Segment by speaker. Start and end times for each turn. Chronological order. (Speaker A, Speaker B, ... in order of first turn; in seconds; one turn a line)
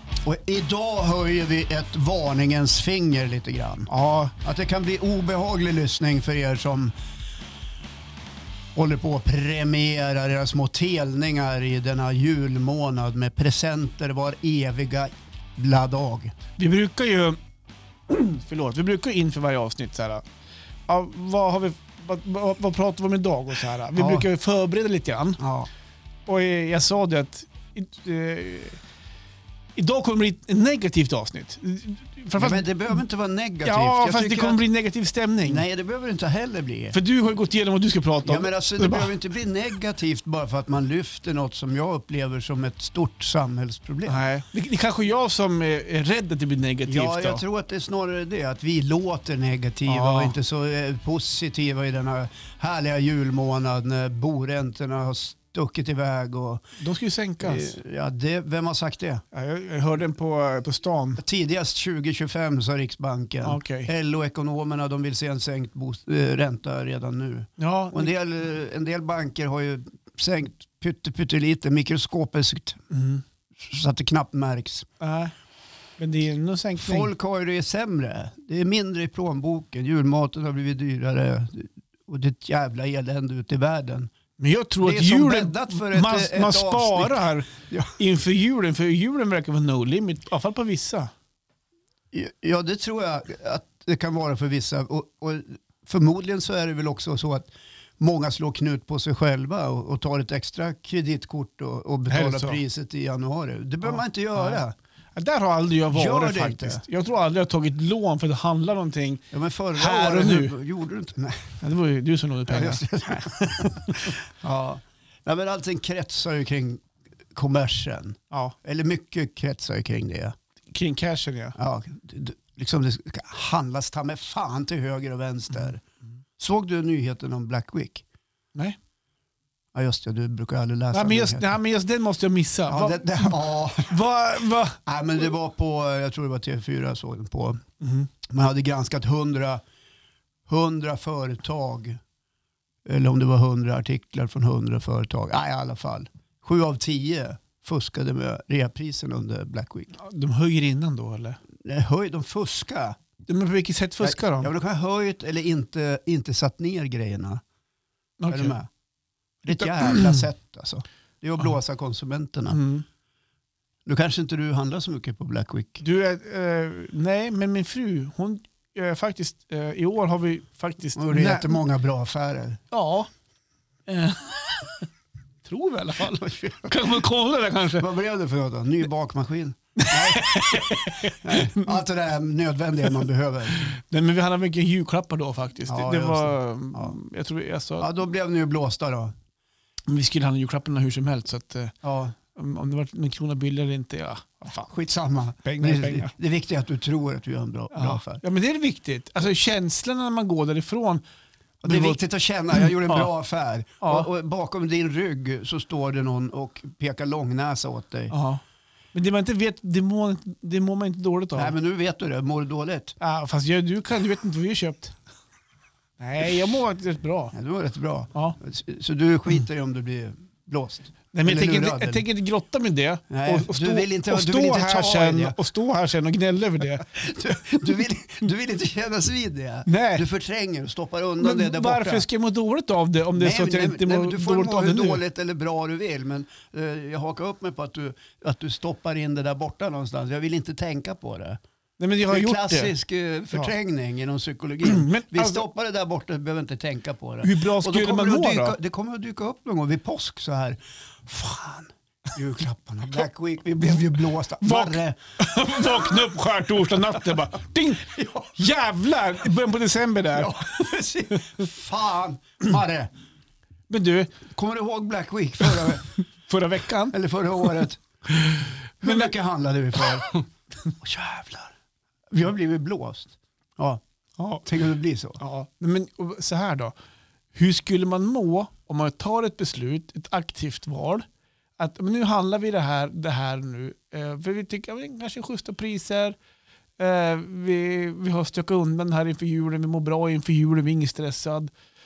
Speaker A: 0.2-6.9
Speaker B: 3.9-4.3
Speaker A: 8.8-16.4
Speaker B: 16.6-17.4
Speaker B: 18.1-20.2
Speaker B: 20.9-25.4
Speaker A: 24.0-24.3
Speaker A: 25.4-25.7
Speaker B: 26.3-28.8
Speaker B: 29.8-32.6
Speaker A: 32.4-34.6
Speaker B: 33.6-35.6
Speaker A: 35.5-37.0
Speaker B: 36.9-39.1
Speaker A: 38.2-44.2
Speaker B: 44.1-47.4
Speaker A: 46.9-56.6
Speaker B: 49.9-50.4
Speaker B: 56.8-57.8
Speaker A: 57.4-59.2
Speaker B: 59.3-61.2
Speaker A: 61.2-72.8
Speaker B: 63.4-63.9
Speaker B: 67.6-68.1
Speaker B: 72.9-73.2
Speaker A: 73.6-74.9
Speaker B: 75.0-75.3
Speaker B: 76.0-77.1
Speaker A: 76.8-84.1
Speaker B: 84.4-91.1
Speaker A: 84.8-87.9
Speaker A: 92.1-104.8
Speaker B: 102.1-102.6
Speaker B: 103.8-104.6
Speaker B: 105.2-109.2
Speaker A: 105.9-106.8
Speaker A: 109.3-111.6
Speaker B: 109.8-110.6
Speaker B: 111.6-113.7
Speaker A: 112.5-116.8
Speaker A: 117.3-120.3
Speaker B: 120.7-121.5
Speaker A: 121.6-125.8
Speaker A: 126.4-128.1
Speaker A: 129.7-131.6
Speaker B: 130.9-134.8
Speaker A: 132.7-134.0
Speaker A: 134.8-137.6
Speaker B: 137.8-138.1
Speaker A: 138.3-139.6
Speaker A: 140.5-142.0
Speaker A: 142.9-149.9
Speaker B: 150.0-151.4
Speaker A: 151.6-153.0
Speaker B: 153.3-154.5
Speaker A: 154.0-157.4
Speaker B: 158.2-158.6
Speaker A: 158.3-158.7
Speaker A: 159.4-162.6
Speaker B: 159.5-160.3
Speaker B: 162.5-162.8
Speaker A: 163.9-165.8
Speaker B: 165.8-171.6
Speaker A: 171.0-172.6
Speaker B: 172.7-173.1
Speaker B: 173.9-174.9
Speaker B: 175.4-177.9
Speaker A: 176.1-176.8
Speaker A: 177.8-183.7
Speaker B: 179.8-181.8
Speaker B: 183.6-187.9
Speaker A: 185.7-187.0
Speaker A: 187.8-189.1
Speaker B: 189.9-191.8
Speaker A: 191.8-192.2
Speaker B: 192.3-194.7
Speaker A: 194.7-198.2
Speaker B: 195.4-196.1
Speaker B: 197.7-201.0
Speaker A: 201.6-208.1
Speaker B: 201.6-202.0
Speaker B: 202.5-203.1
Speaker B: 203.8-204.1
Speaker B: 208.1-208.4
Speaker B: 208.9-211.6
Speaker A: 211.4-213.0
Speaker B: 213.0-215.0
Speaker B: 216.0-217.3
Speaker A: 217.3-222.0
Speaker B: 221.1-226.9
Speaker A: 223.1-225.4
Speaker A: 226.8-232.1
Speaker B: 229.7-230.1
Speaker B: 231.2-235.0
Speaker A: 233.2-241.4
Speaker B: 241.8-242.7
Speaker A: 242.1-255.0
Speaker B: 244.6-245.4
Speaker B: 247.2-248.6
Speaker B: 254.4-260.3
Speaker A: 255.6-255.9
Speaker A: 257.8-258.4
Speaker A: 260.1-262.9
Speaker B: 263.7-264.1
Speaker A: 264.3-265.9
Speaker B: 266.3-267.0
Speaker A: 266.9-267.8
Speaker B: 268.1-269.1
Speaker A: 268.8-270.3
Speaker A: 270.8-271.5
Speaker A: 272.1-273.8
Speaker B: 274.2-274.4
Speaker A: 274.4-275.2
Speaker B: 275.2-276.7
Speaker B: 277.3-281.1
Speaker B: 281.6-286.2
Speaker B: 286.8-291.5